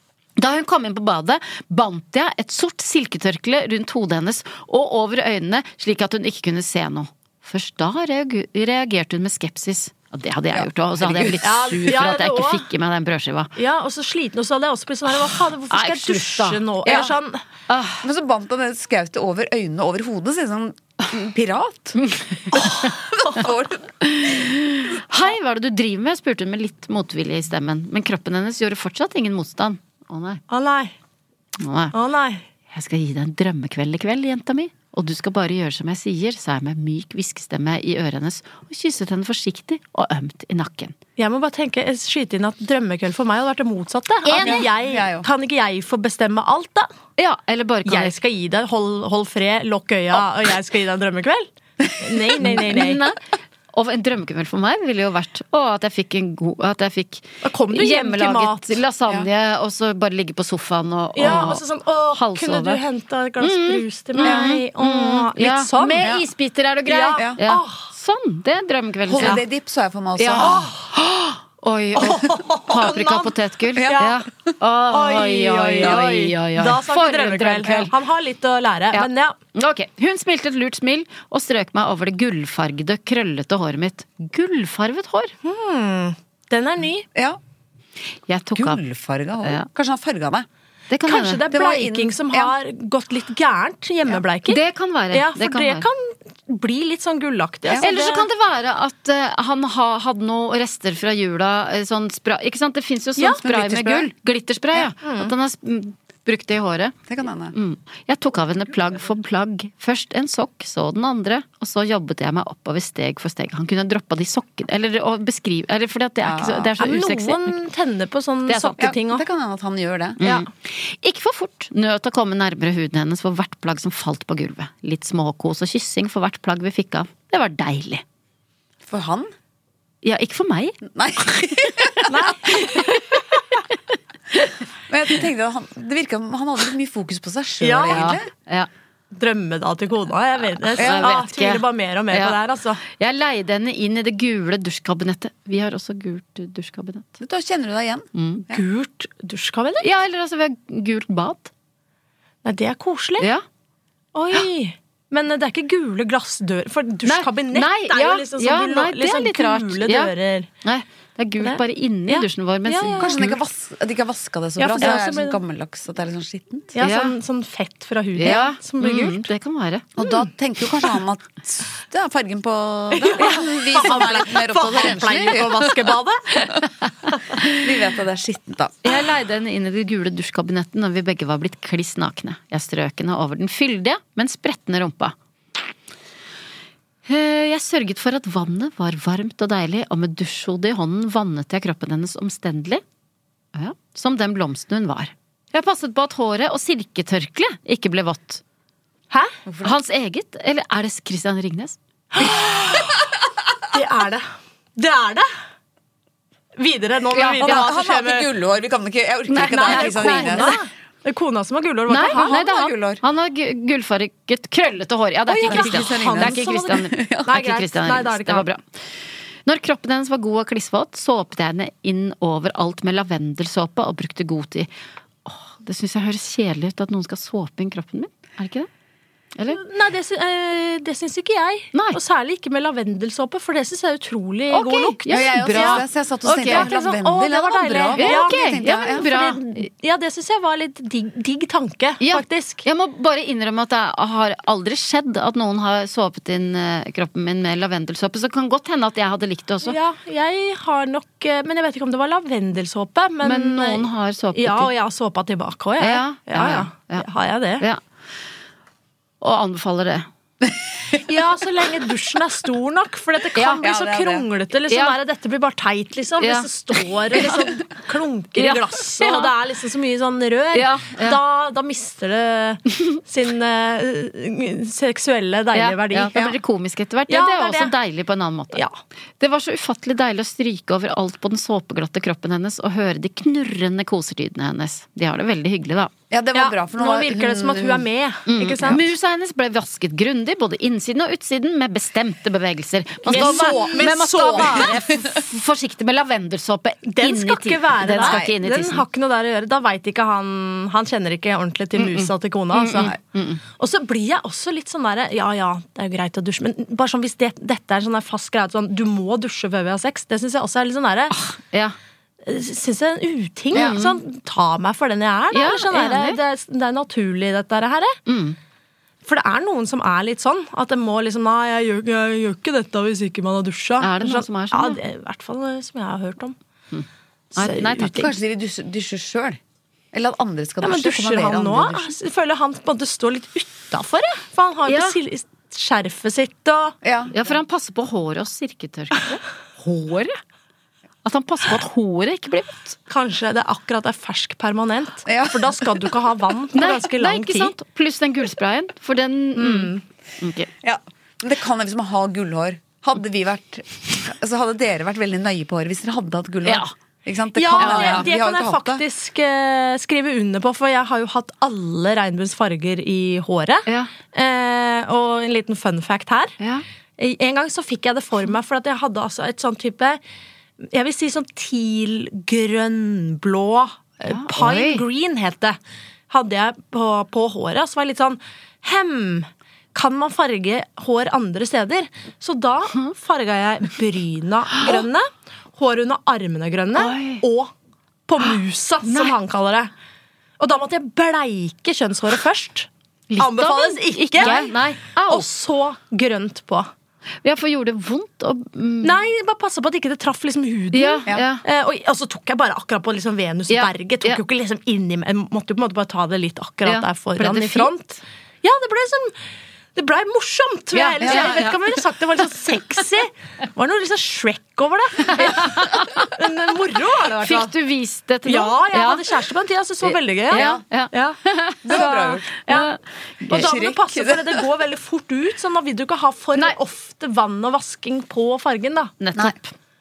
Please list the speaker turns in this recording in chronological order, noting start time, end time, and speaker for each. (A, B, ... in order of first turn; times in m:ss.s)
0:00.4-0:13.5 A
0:10.5-0:11.4 B
0:11.4-0:12.6 C
0:13.6-0:17.4 C
0:15.3-0:17.1 A
0:16.9-0:17.1 B
0:17.7-0:18.0 A
0:18.0-0:22.0 B
0:22.0-0:23.4 A
0:22.5-0:24.5 B
0:24.0-0:30.4 A
0:30.5-0:30.9 C
0:31.6-0:32.0 A
0:31.9-0:32.4 C
0:32.7-0:41.0 A
0:41.2-0:46.9 C
0:44.2-0:44.7 A
0:44.4-0:45.3 B
0:47.2-0:48.2 A
0:47.8-0:53.0 C
0:52.7-1:01.6 A
0:57.4-0:58.8 C
1:01.2-1:06.1 C
1:02.1-1:02.8 A
1:03.4-1:09.4 A
1:04.2-1:04.5 B
1:06.9-1:07.9 C
1:09.1-1:10.6 B
1:10.2-1:17.9 A
1:10.4-1:10.8 C
1:12.0-1:13.4 C
1:13.8-1:14.1 B
1:13.9-1:14.2 C
1:14.9-1:19.4 C
1:18.9-1:25.4 A
1:25.4-1:27.1 C
1:27.1-1:27.4 B
1:28.3-1:28.8 A
1:28.6-1:30.5 B
1:30.9-1:31.5 A
1:31.0-1:38.3 C
1:31.5-1:32.6 B
1:34.5-1:35.9 A
1:37.8-1:47.0 A
1:43.2-1:43.4 C
1:43.4-1:44.1 B
1:45.0-1:45.3 C
1:47.1-1:47.6 B
1:47.5-1:57.6 A
1:56.2-1:56.7 B
1:56.8-1:59.2 C
1:58.5-1:58.8 A
1:58.8-2:00.2 B
2:00.2-2:08.0 A
2:08.9-2:09.3 B
2:10.0-2:10.8 A
2:10.8-2:12.5 B
2:12.1-2:13.2 C
2:12.5-2:13.0 A
2:14.9-2:18.3 B
2:17.6-2:18.2 C
2:17.9-2:18.7 A
2:19.1-2:22.8 C
2:20.6-2:27.2 A
2:20.8-2:21.1 B
2:27.2-2:28.6 B
2:28.2-2:28.4 A
2:28.5-2:29.9 C
2:29.8-2:31.5 A
2:32.4-2:33.3 C
2:33.2-2:33.4 A
2:34.2-2:40.5 C
2:37.0-2:40.1 A
2:40.6-2:43.4 A
2:41.4-2:43.4 C
2:43.0-2:46.8 B
2:44.6-2:45.4 C
2:46.8-2:49.3 C
2:46.8-2:47.1 A
2:48.2-2:49.9 A
2:50.0-2:56.0 B
2:53.0-2:56.5 C
2:57.5-2:58.8 B
2:58.8-3:05.2 A
3:07.1-3:12.8 A
3:13.5-3:18.4 A
3:19.5-3:19.8 B
3:19.6-3:21.8 A
3:22.1-3:23.0 C
3:23.7-3:25.3 C
3:26.6-3:28.3 C
3:27.1-3:27.6 A
3:27.4-3:30.6 B
3:29.3-3:30.6 A
3:29.5-3:32.4 C
3:31.9-3:38.8 A
3:32.1-3:33.0 B
3:35.3-3:38.5 C
3:35.4-3:37.3 B
3:39.5-3:44.7 A
3:45.3-3:48.7 A
3:49.4-3:49.6 A
3:49.5-3:55.9 C
3:54.5-3:56.7 A
3:55.1-3:59.1 B
3:56.4-4:02.6 C
3:57.9-3:59.7 A
4:02.0-4:09.8 A
4:09.6-4:17.7 C
4:13.2-4:14.7 A
4:15.8-4:17.1 A
4:19.2-4:20.1 A
4:21.0-4:36.4 C
4:23.4-4:23.6 A
4:23.4-4:24.3 B
4:24.7-4:25.0 A
4:26.2-4:26.5 A
4:28.4-4:29.3 A
4:30.5-4:31.2 A
4:35.5-4:38.6 A
4:37.1-4:37.7 C
4:39.2-4:45.9 A
4:46.1-4:47.9 B
4:46.3-4:48.8 C
4:48.3-4:58.8 A
4:53.0-4:54.8 B
4:53.1-4:54.8 C
4:56.9-5:03.0 C
4:58.0-4:58.3 B
5:01.8-5:03.4 A
5:03.6-5:11.2 C
5:11.1-5:11.8 A
5:12.2-5:18.0 C
5:13.5-5:14.0 A
5:15.3-5:16.2 A
5:18.1-5:18.4 A
5:19.1-5:26.4 C
5:23.8-5:24.8 A
5:26.7-5:28.1 A
5:27.4-5:28.1 C
5:27.8-5:29.4 B
5:29.9-5:31.9 B
5:30.6-5:36.8 C
5:34.6-5:35.0 A
5:36.8-5:37.1 B
5:37.1-5:40.2 A
5:41.0-5:42.8 A
5:42.9-5:47.5 C
5:45.1-5:45.9 B
5:46.5-5:50.5 A
5:49.4-5:49.8 C
5:50.6-5:58.8 B
5:56.4-5:56.7 A
5:57.4-6:06.4 C
5:57.6-5:58.1 A
6:03.7-6:03.9 A
6:07.0-6:10.0 C
6:10.6-6:15.6 C
6:14.1-6:14.8 A
6:16.1-6:27.5 C
6:26.8-6:27.2 A
6:28.1-6:29.7 C
6:28.8-6:29.1 A
6:30.4-6:36.7 C
6:33.1-6:35.3 A
6:37.2-6:39.0 A
6:38.8-6:49.1 C
6:40.7-6:41.4 A
6:43.5-6:44.2 A
6:46.6-6:47.7 A
6:49.8-6:57.5 C
6:50.7-6:51.6 A
6:51.0-6:51.4 B
6:55.0-6:56.1 A
6:57.2-6:59.0 A
6:58.3-7:02.7 C
6:59.9-7:03.5 A
7:00.3-7:00.6 B
7:01.6-7:02.4 B
7:03.3-7:08.9 C
7:03.3-7:04.5 B
7:09.0-7:09.5 A